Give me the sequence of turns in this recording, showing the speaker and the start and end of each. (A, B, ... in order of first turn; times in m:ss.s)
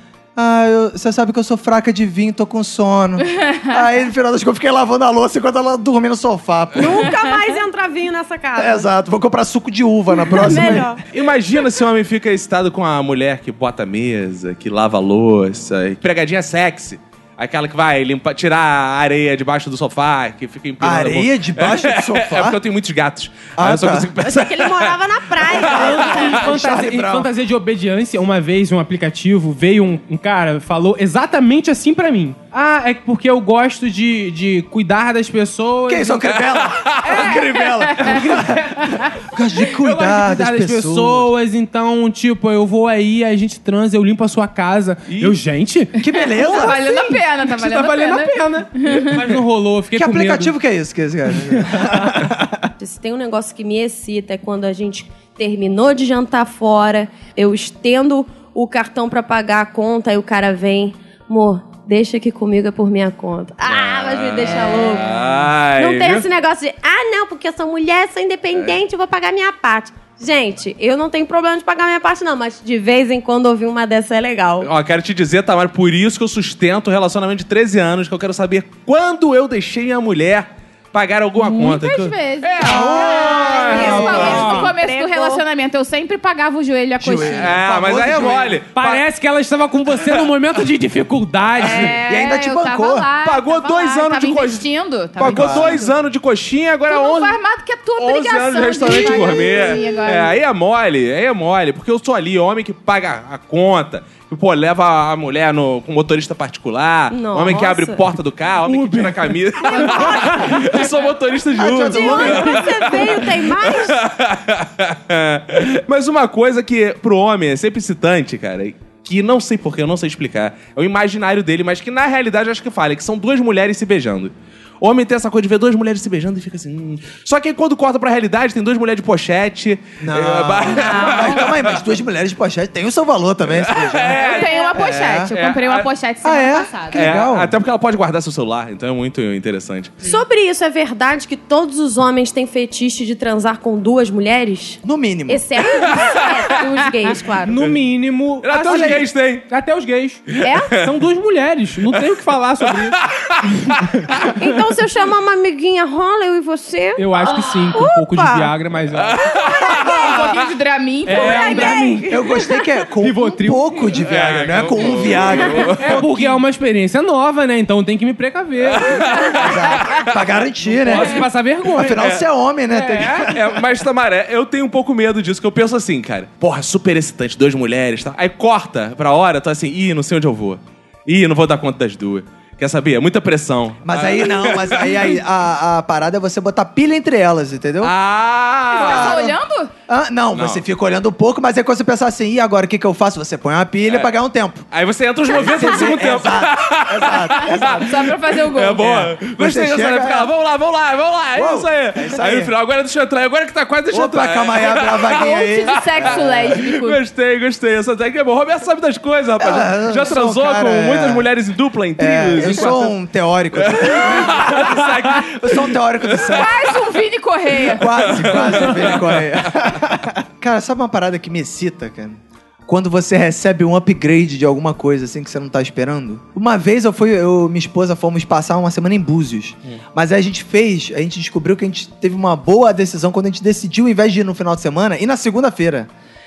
0:00.4-0:07.1 A
0:03.3-0:03.7 B
0:06.7-0:08.9 C
0:08.6-0:10.9 A
0:10.3-0:11.0 C
0:11.1-0:25.9 D
0:20.8-0:22.6 A
0:23.6-0:24.1 A
0:24.2-0:26.5 C
0:25.5-0:27.3 A
0:25.6-0:36.4 E
0:35.8-0:41.3 A
0:36.7-0:37.3 D
0:37.1-0:37.4 E
0:37.1-0:38.0 B
0:38.0-0:39.0 E
0:39.7-0:50.5 E
0:45.1-0:45.4 D
0:46.0-0:46.8 A
0:46.1-0:49.2 B
0:49.9-0:52.7 A
0:51.5-0:52.2 E
0:52.8-1:05.2 C
1:03.7-1:06.2 D
1:05.8-1:14.7 C
1:14.6-1:24.4 D
1:21.4-1:27.6 B
1:22.6-1:24.5 A
1:23.3-1:25.4 C
1:24.1-1:24.7 E
1:27.0-1:28.6 A
1:27.2-1:29.0 D
1:28.7-1:32.0 E
1:31.6-1:35.9 B
1:32.0-1:33.1 A
1:33.2-1:34.6 D
1:35.2-1:37.4 D
1:35.2-1:35.8 A
1:36.9-1:40.4 B
1:38.0-2:11.8 D
1:47.1-1:48.0 C
1:48.7-1:49.8 E
1:49.8-1:50.7 B
1:50.0-1:50.9 C
1:51.5-1:52.7 A
1:51.9-1:54.0 C
2:10.0-2:15.3 A
2:10.7-2:11.5 B
2:13.5-2:15.9 D
2:14.1-2:17.1 B
2:16.2-2:17.5 A
2:16.9-2:19.9 D
2:20.0-2:27.6 C
2:24.8-2:25.4 A
2:27.4-2:33.0 E
2:28.4-2:29.5 D
2:30.3-2:30.8 D
2:30.4-2:30.7 C
2:32.7-2:33.8 D
2:34.3-2:38.5 C
2:37.0-2:39.2 E
2:38.9-2:40.4 D
2:39.6-2:40.1 C
2:39.7-2:41.9 B
2:41.0-2:42.2 E
2:41.1-2:42.5 C
2:42.1-2:46.0 A
2:43.0-2:43.8 E
2:44.0-2:46.2 D
2:45.8-2:49.2 E
2:48.6-2:50.2 D
2:49.4-2:53.6 A
2:50.6-2:52.1 E
2:52.0-2:52.2 D
2:52.7-2:53.3 E
2:53.3-3:05.2 D
3:03.8-3:07.9 A
3:07.8-3:09.3 D
3:08.7-3:09.7 B
3:08.7-3:09.4 A
3:09.9-3:14.7 A
3:10.3-3:10.6 D
3:14.7-3:32.9 D
3:15.3-3:18.1 A
3:17.4-3:19.0 B
3:18.8-3:20.3 A
3:21.3-3:22.5 A
3:23.9-3:26.6 A
3:25.1-3:27.0 B
3:29.4-3:31.3 A
3:32.0-3:36.6 A
3:33.6-3:36.4 D
3:36.3-3:38.0 B
3:37.8-3:55.9 A
3:38.1-3:39.5 D